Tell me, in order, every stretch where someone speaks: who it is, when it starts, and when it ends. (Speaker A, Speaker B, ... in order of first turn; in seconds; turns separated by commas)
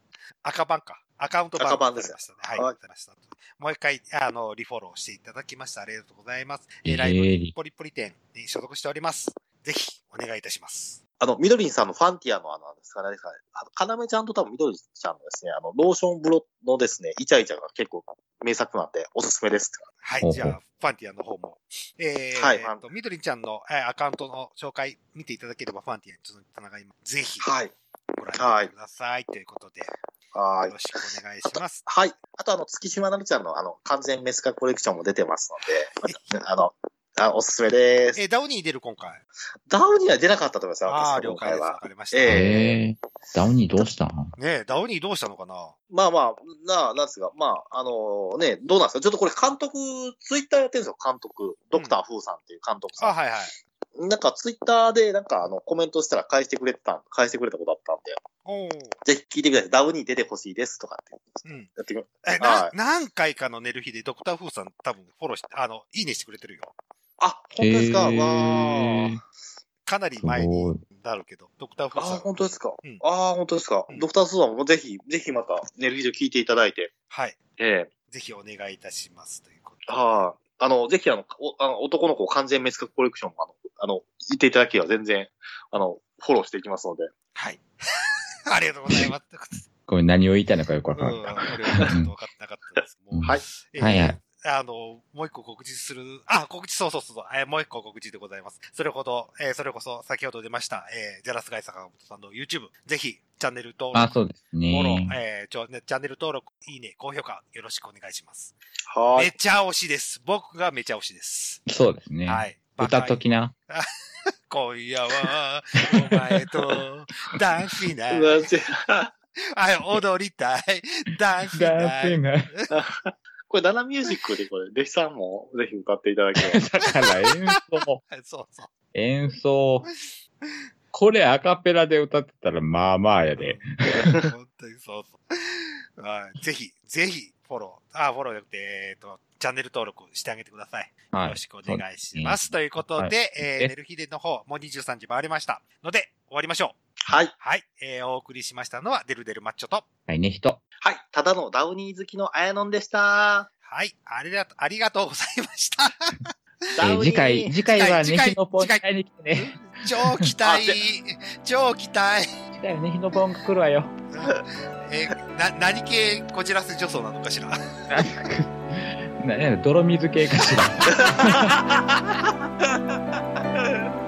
Speaker A: 0.4-11.0, Speaker B: 1.6-2.7, Speaker C: 6.8-7.5, Speaker B: 11.2-19.8, Speaker A: 20.0-27.5, Speaker C: 20.2-20.6, Speaker B: 22.4-22.8, Speaker B: 27.4-27.7, Speaker A: 28.2-29.9, Speaker B: 28.4-28.7, Speaker B: 30.3-31.0, Speaker A: 30.6-31.9, Speaker B: 31.8-38.2, Speaker A: 38.1-39.2, Speaker B: 39.7-42.8, Speaker A: 40.9-42.5, Speaker C: 42.3-44.3, Speaker A: 44.4-45.7, Speaker B: 45.9-53.2, Speaker A: 53.0-53.5, Speaker B: 53.9-58.2, Speaker A: 58.4-59.0, Speaker B: 59.0-62.7, Speaker A: 61.4-61.7, Speaker A: 62.2-66.7, Speaker B: 67.2-69.2, Speaker C: 67.6-69.2, Speaker A: 69.9-73.0, Speaker C: 70.2-70.8, Speaker B: 72.0-76.9, Speaker A: 77.1-77.4, Speaker B: 77.6-77.9, Speaker A: 78.1-79.9, Speaker B: 79.9-87.1, Speaker A: 87.3-89.7, Speaker C: 89.9-92.1, Speaker A: 90.9-104.1, Speaker C: 93.1-94.2, Speaker C: 103.9-105.2, Speaker A: 104.7-108.5, Speaker B: 108.9-109.3, Speaker A: 109.2-111.6, Speaker C: 111.7-113.5, Speaker A: 112.2-113.9, Speaker A: 114.5-118.5, Speaker B: 118.1-119.1, Speaker A: 119.5-122.7, Speaker C: 121.5-122.5, Speaker B: 122.7-126.6, Speaker C: 126.4-128.0, Speaker A: 128.1-128.7, Speaker C: 128.9-129.9, Speaker A: 129.9-130.5, Speaker C: 130.9-134.2, Speaker A: 133.4-146.8, Speaker C: 141.1-143.7, Speaker B: 147.1-147.3, Speaker A: 147.4-149.8, Speaker C: 150.1-150.6, Speaker B: 150.8-153.5, Speaker A: 153.6-156.3, Speaker B: 156.8-157.6, Speaker C: 156.8-160.2, Speaker A: 157.7-158.8, Speaker A: 159.3-162.4, Speaker B: 160.4-160.8, Speaker C: 162.5-163.9, Speaker A: 164.1-168.1, Speaker C: 167.9-171.6, Speaker B: 170.9-173.9